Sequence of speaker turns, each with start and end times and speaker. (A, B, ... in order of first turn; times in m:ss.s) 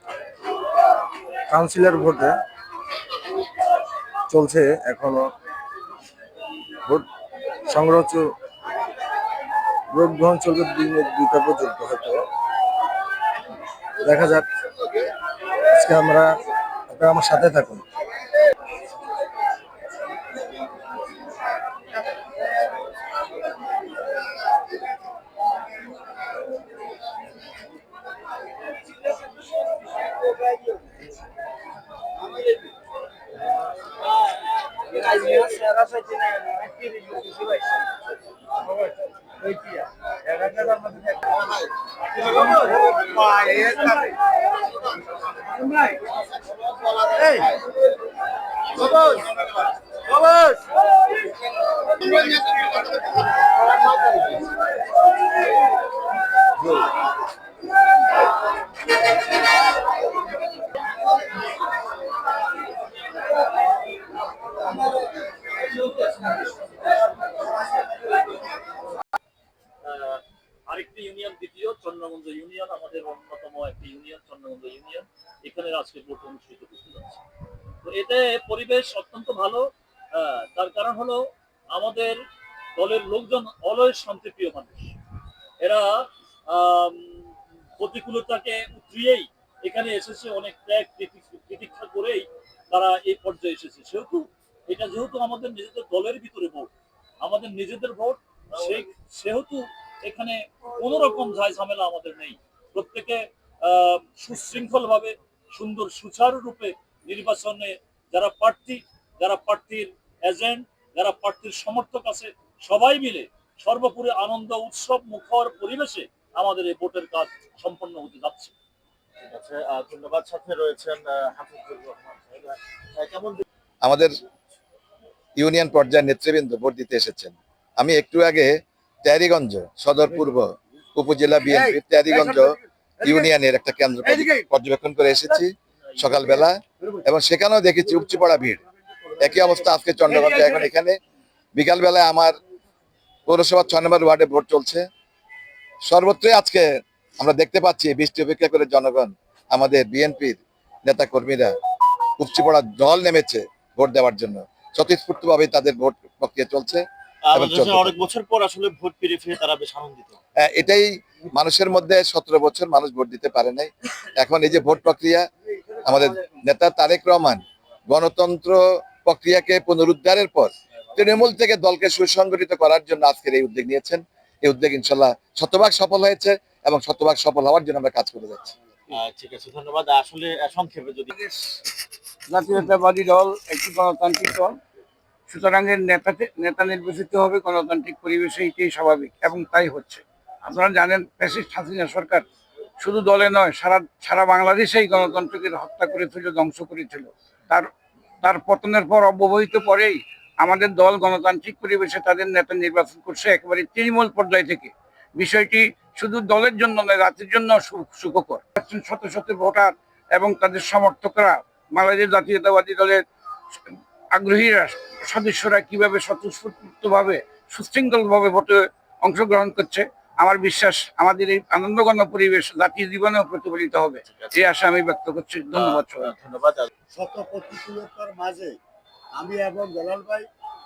0:01.5-0:02.3 A
0:04.3-0:05.2 A
0:07.7-0:08.2 A
0:09.9-0:12.2 A
0:14.0-0:14.4 A
0:15.7-0:16.3 A
0:16.9-0:17.8 A
0:34.9-0:37.8 B
0:39.4-0:41.5 B
0:42.2-0:44.1 B
0:45.6-0:45.9 B
0:47.2-0:47.5 B
0:48.8-0:49.2 B
0:50.1-0:50.6 B
1:09.8-1:17.2 C
1:17.8-1:22.2 C
1:22.8-1:24.9 C
1:25.6-1:58.5 C
1:38.6-1:38.8 D
1:59.2-2:03.4 D
2:03.8-2:04.1 E
2:05.4-2:12.4 E
2:11.5-2:13.3 B
2:13.0-2:18.6 E
2:14.0-2:14.4 B
2:16.2-2:17.0 B
2:17.9-2:20.7 B
2:19.2-2:21.0 E
2:21.6-2:22.4 E
2:23.3-2:24.8 E
2:25.8-2:31.5 E
2:32.2-2:38.0 E
2:37.2-2:40.2 D
2:40.4-2:45.2 E
2:45.8-2:58.5 E
2:58.9-3:01.1 D
3:02.3-3:04.5 F
3:05.3-3:12.2 F
3:12.8-3:17.7 F
3:18.2-3:33.0 F
3:34.1-3:46.1 F
3:44.1-3:44.5 D
3:45.5-3:46.7 D
3:46.9-3:48.6 B
3:49.1-3:50.3 B